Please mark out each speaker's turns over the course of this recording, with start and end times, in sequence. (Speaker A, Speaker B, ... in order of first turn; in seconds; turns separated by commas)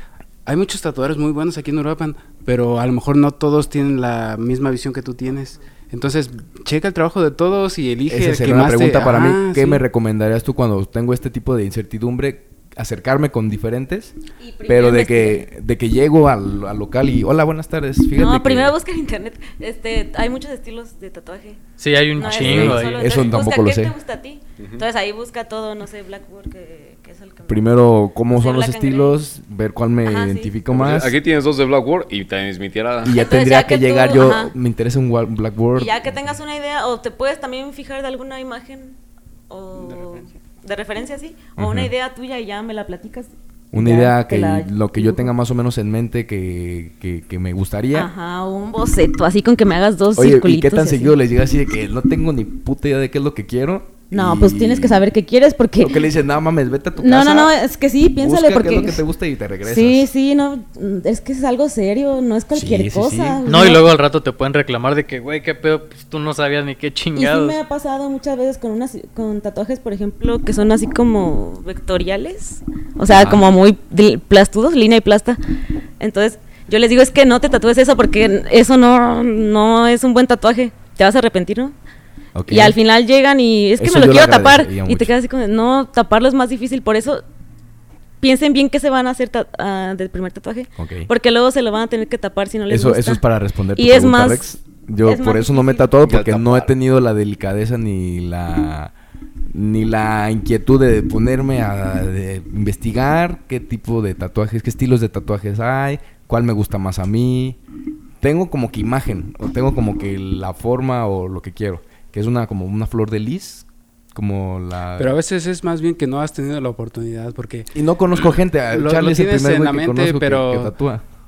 Speaker A: 0.5-9.8, Speaker B: 8.1-14.2, Speaker C: 14.4-15.5, Speaker B: 14.7-18.7, Speaker C: 18.1-21.6, Speaker D: 21.8-23.1, Speaker C: 22.2-27.8, Speaker B: 22.2-23.9, Speaker E: 24.6-24.9, Speaker B: 27.5-31.1, Speaker C: 28.3-29.2, Speaker C: 30.1-30.5, Speaker E: 30.7-33.2, Speaker B: 33.0-36.0, Speaker C: 33.1-34.5, Speaker C: 35.8-39.0, Speaker C: 39.5-45.3, Speaker A: 39.9-40.2, Speaker B: 41.6-41.9, Speaker B: 43.7-48.1, Speaker C: 47.9-51.2, Speaker B: 50.2-55.0, Speaker C: 54.1-56.1, Speaker B: 55.8-57.5, Speaker C: 57.0-59.0, Speaker B: 58.2-60.1, Speaker C: 59.6-63.9, Speaker B: 62.5-63.4, Speaker D: 63.5-67.6, Speaker C: 67.2-75.4, Speaker B: 73.1-73.4, Speaker C: 76.0-81.8, Speaker B: 82.3-82.8, Speaker C: 82.5-87.2, Speaker B: 83.8-85.1, Speaker C: 88.2-93.2, Speaker B: 90.8-91.1, Speaker B: 92.7-98.9, Speaker C: 93.8-94.4, Speaker C: 95.0-96.0, Speaker E: 96.0-96.7, Speaker B: 99.5-107.6, Speaker B: 108.2-115.2, Speaker A: 115.0-120.7, Speaker B: 117.7-121.0